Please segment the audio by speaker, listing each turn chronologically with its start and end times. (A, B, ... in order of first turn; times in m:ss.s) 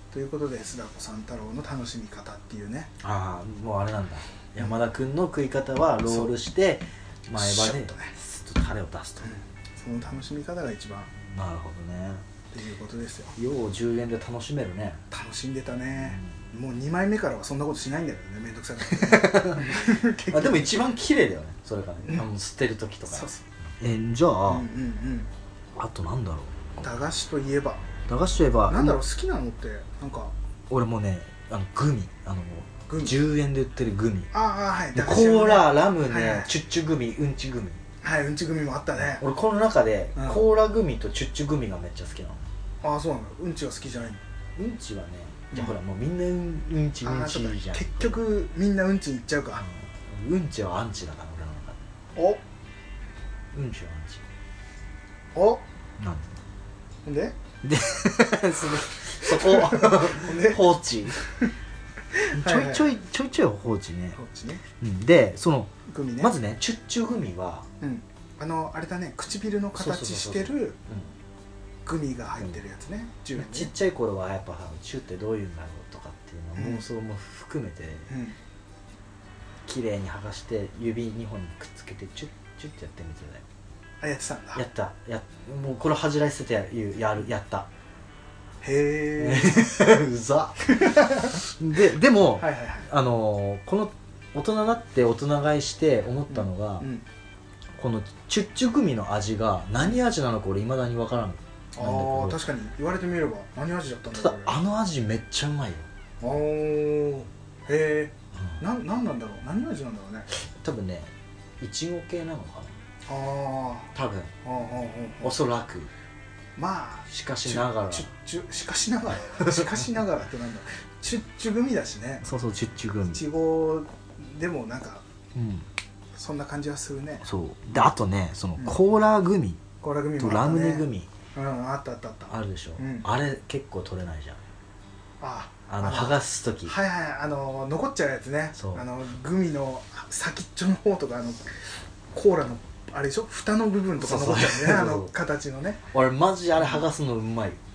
0:00.1-0:02.9 A
0:03.0-0:09.3 B
0:06.0-0:06.3 A
0:07.4-0:08.1 A
0:09.2-0:11.1 A
0:11.2-0:12.2 B
0:12.5-0:13.4 A
0:13.4-0:15.0 B
0:15.1-0:20.8 A
0:16.0-0:16.4 B
0:18.9-0:24.6 B
0:23.1-0:23.4 A
0:24.5-0:25.3 A
0:25.8-0:26.8 B
0:26.8-0:27.8 A
0:28.1-0:29.0 B
0:28.7-0:30.3 A
0:30.7-0:34.3 B
0:32.9-0:33.2 A
0:34.3-0:36.5 A
0:34.9-0:37.8 B
0:38.0-0:39.2 A
0:39.0-0:42.5 B
0:40.2-0:40.4 A
0:42.8-0:44.2 A
0:44.6-0:48.2 B
0:45.5-0:45.8 A
0:47.0-0:49.6 A
0:49.6-0:51.8 B
0:52.1-0:52.4 A
0:53.5-0:54.2 B
0:55.3-0:55.6 A
0:56.0-0:56.3 B
0:57.0-0:57.4 A
0:57.6-1:01.2 B
0:58.7-1:01.5 A
1:02.1-1:02.9 A
1:02.3-1:04.2 B
1:04.2-1:04.6 A
1:04.8-1:07.7 B
1:05.9-1:06.4 A
1:07.8-1:10.8 A
1:09.7-1:11.1 B
1:11.8-1:13.7 A
1:13.4-1:18.1 B
1:16.6-1:16.8 A
1:18.1-1:18.4 A
1:19.6-1:23.4 B
1:24.0-1:24.6 A
1:24.5-1:27.7 B
1:28.6-1:29.8 A
1:29.2-1:36.9 B
1:30.7-1:31.4 A
1:32.4-1:32.9 A
1:36.3-1:37.0 A
1:37.8-1:42.4 B
1:41.8-1:44.6 A
1:44.1-1:45.9 B
1:46.2-1:50.3 A
1:48.4-1:48.6 B
1:50.3-1:52.8 B
1:53.0-1:53.9 A
1:53.9-1:54.3 B
1:54.4-1:55.4 A
1:55.2-1:55.9 B
1:56.6-2:02.2 A
1:57.1-1:58.1 B
1:59.4-1:59.8 B
2:02.2-2:03.2 B
2:03.1-2:05.0 A
2:05.4-2:05.7 B
2:06.1-2:07.2 A
2:07.2-2:09.6 B
2:09.8-2:13.0 A
2:10.2-2:11.1 B
2:12.3-2:14.4 B
2:15.2-2:21.6 A
2:15.7-2:16.7 B
2:18.6-2:18.9 B
2:22.1-2:25.8 A
2:24.0-2:25.1 B
2:25.9-2:27.6 B
2:26.6-2:26.8 A